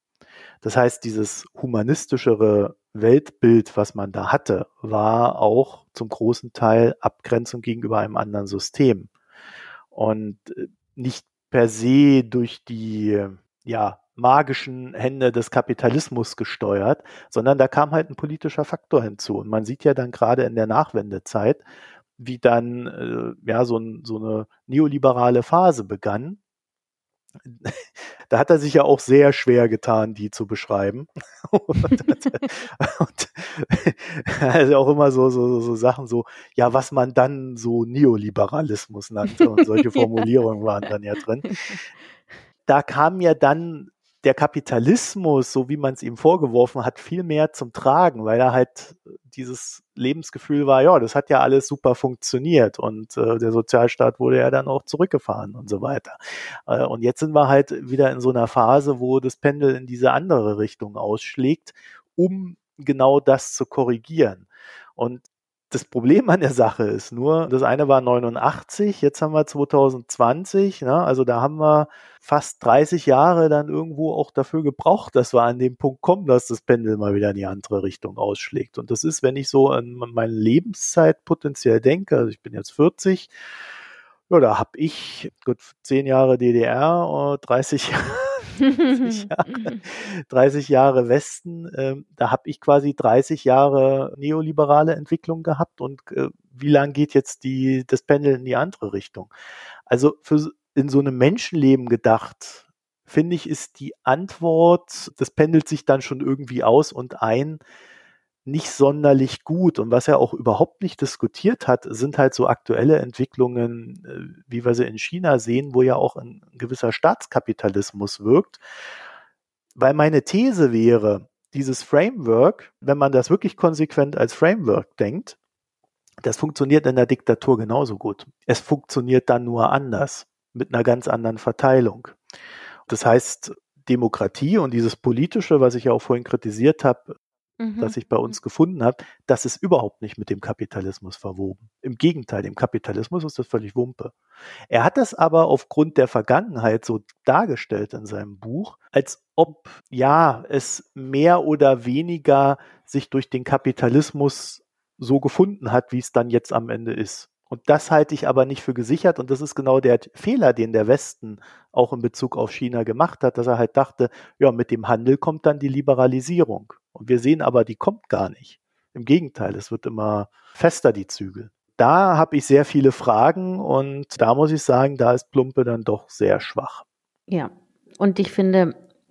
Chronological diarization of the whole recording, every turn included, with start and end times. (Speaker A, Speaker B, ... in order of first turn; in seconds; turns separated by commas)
Speaker A: 0.6-9.1, Speaker A: 9.9-21.6, Speaker A: 22.2-26.4, Speaker A: 27.4-41.5, Speaker B: 39.5-40.2, Speaker B: 41.5-41.8, Speaker A: 42.7-83.3, Speaker A: 84.3-99.3, Speaker B: 88.6-89.8, Speaker A: 99.9-107.6, Speaker A: 108.5-118.6, Speaker A: 119.8-125.3, Speaker A: 126.2-132.2, Speaker A: 132.9-137.1, Speaker B: 137.6-137.9, Speaker A: 137.8-144.1, Speaker A: 144.7-176.8, Speaker B: 177.3-178.7